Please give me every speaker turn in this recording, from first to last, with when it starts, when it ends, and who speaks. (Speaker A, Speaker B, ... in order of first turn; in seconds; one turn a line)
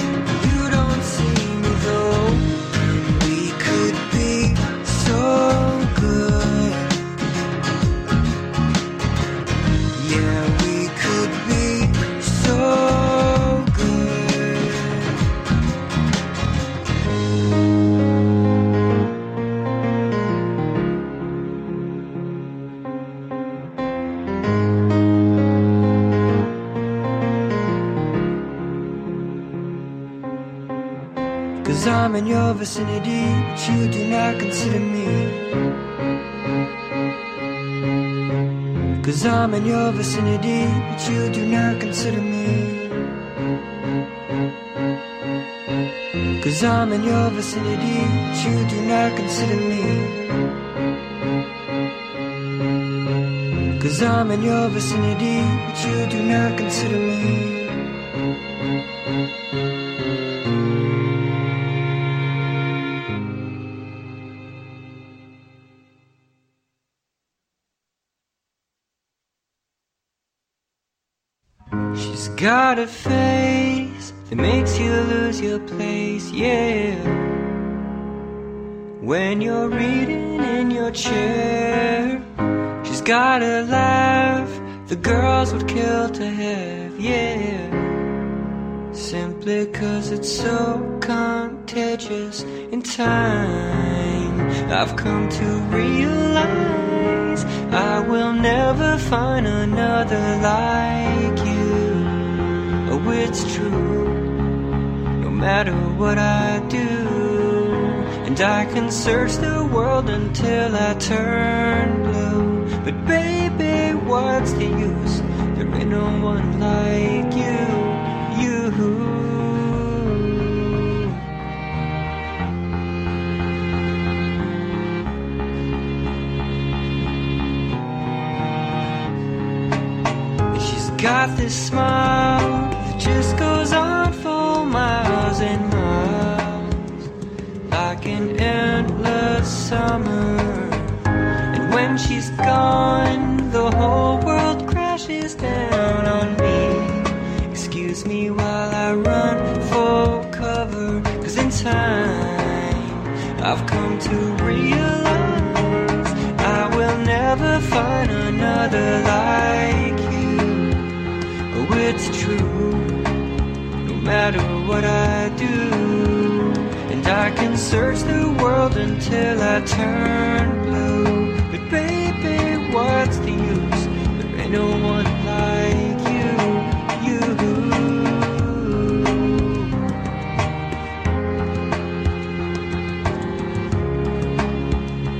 Speaker A: 0.3-7.0
Speaker A: 9.9-15.2
Speaker A: 31.6-35.5
Speaker A: 39.0-43.1
Speaker A: 46.4-50.2
Speaker A: 53.8-57.8
Speaker A: 72.0-77.2
Speaker A: 79.0-82.2
Speaker A: 82.8-87.9
Speaker A: 88.9-104.2
Speaker A: 105.2-121.2
Speaker A: 130.5-136.9
Speaker A: 137.7-141.0
Speaker A: 141.5-160.9
Speaker A: 161.5-163.0
Speaker A: 163.8-179.7